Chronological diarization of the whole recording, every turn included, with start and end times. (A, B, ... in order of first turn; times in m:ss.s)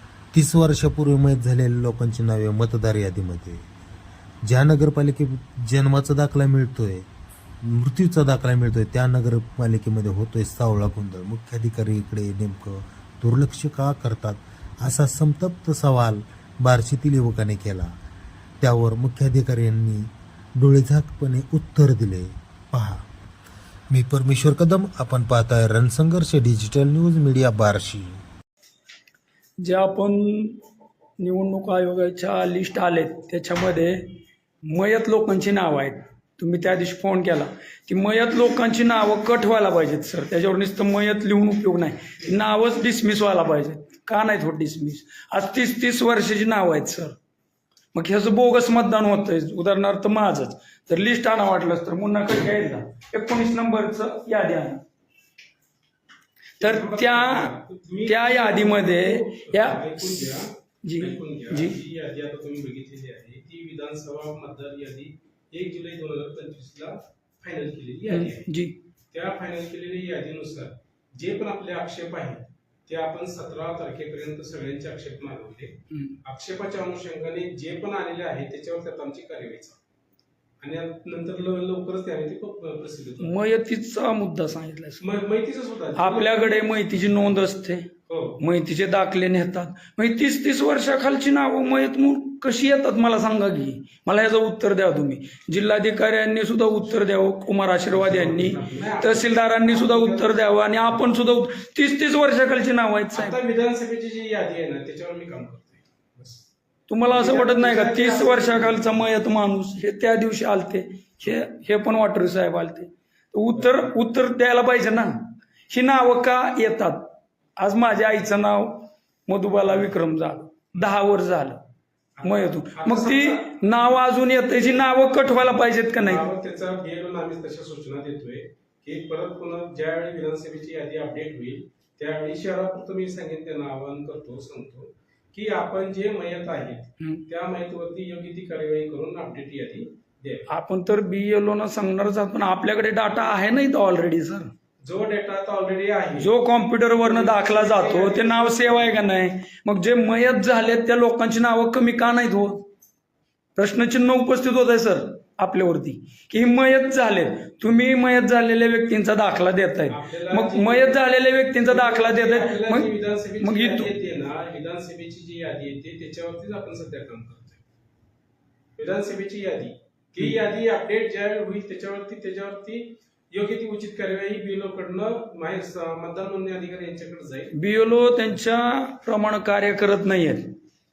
0:00.3-0:03.7 A
0:04.4-0:07.1 A
0:07.6-0:17.9 A
0:18.6-0:23.0 A
0:23.9-0:28.2 A
0:29.6-0:30.6 B
0:31.2-0:34.0 B
0:34.6-0:47.2 B
0:47.9-0:54.8 B
0:56.6-0:57.5 B
0:56.6-1:08.5 C
0:58.0-1:00.3 B
1:00.8-1:01.8 B
1:08.1-1:08.8 B
1:09.1-1:15.7 C
1:16.2-1:19.8 C
1:20.6-1:23.3 C
1:23.2-1:25.1 B
1:25.0-1:26.6 C
1:25.9-1:27.9 B
1:28.1-1:28.4 C
1:28.4-1:43.4 B
1:37.9-1:40.9 C
1:43.1-1:46.4 C
1:46.9-2:01.6 B
1:47.0-1:48.9 C
2:02.2-2:03.6 C
2:02.2-2:06.2 B
2:06.0-2:20.5 C
2:20.5-2:24.5 B
2:24.8-2:26.3 C
2:26.2-2:32.6 B
2:27.0-2:29.1 C
2:33.5-2:43.9 B
2:39.9-2:41.0 C
2:41.7-2:47.6 C
2:48.8-2:57.5 C
2:57.5-3:00.5 B